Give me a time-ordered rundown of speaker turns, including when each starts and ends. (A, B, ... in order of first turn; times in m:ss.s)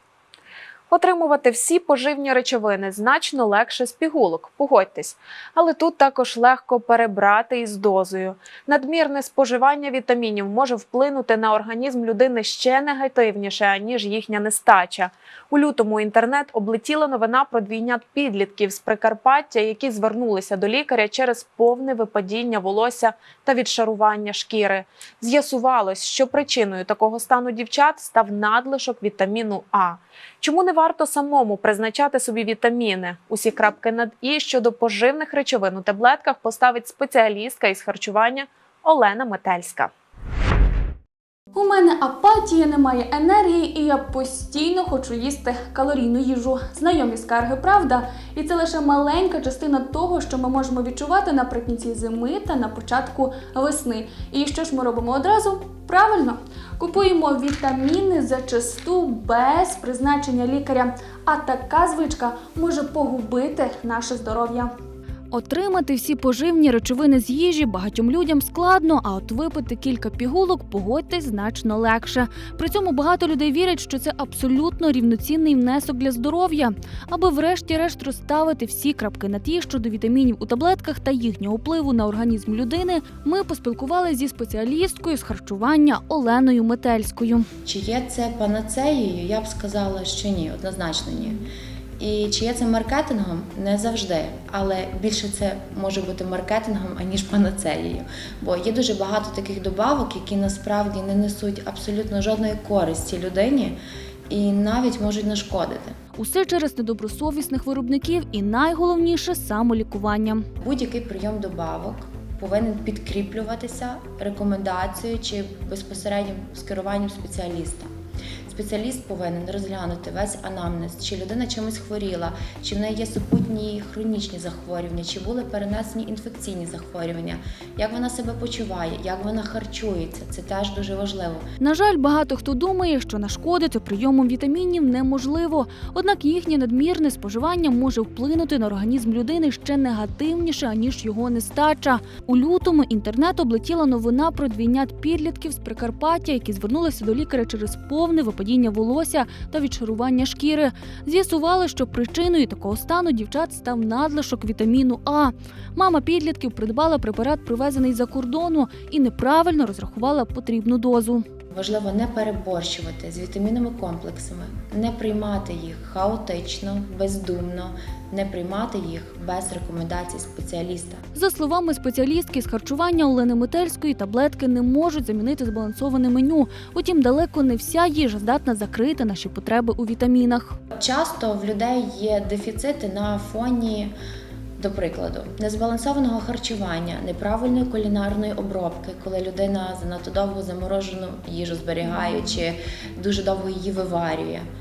0:00.9-0:39.9 A
0:41.5-1:04.7 B
1:05.3-1:27.5 B
1:27.6-1:31.4 C
1:32.0-1:43.8 C
1:44.3-1:45.9 C
1:46.1-1:50.4 B
1:50.6-1:57.9 C
1:58.5-2:11.4 C
2:11.6-2:41.2 B
2:41.5-2:51.0 C
2:51.1-3:00.6 B
3:00.8-3:03.9 C
3:04.6-3:14.4 C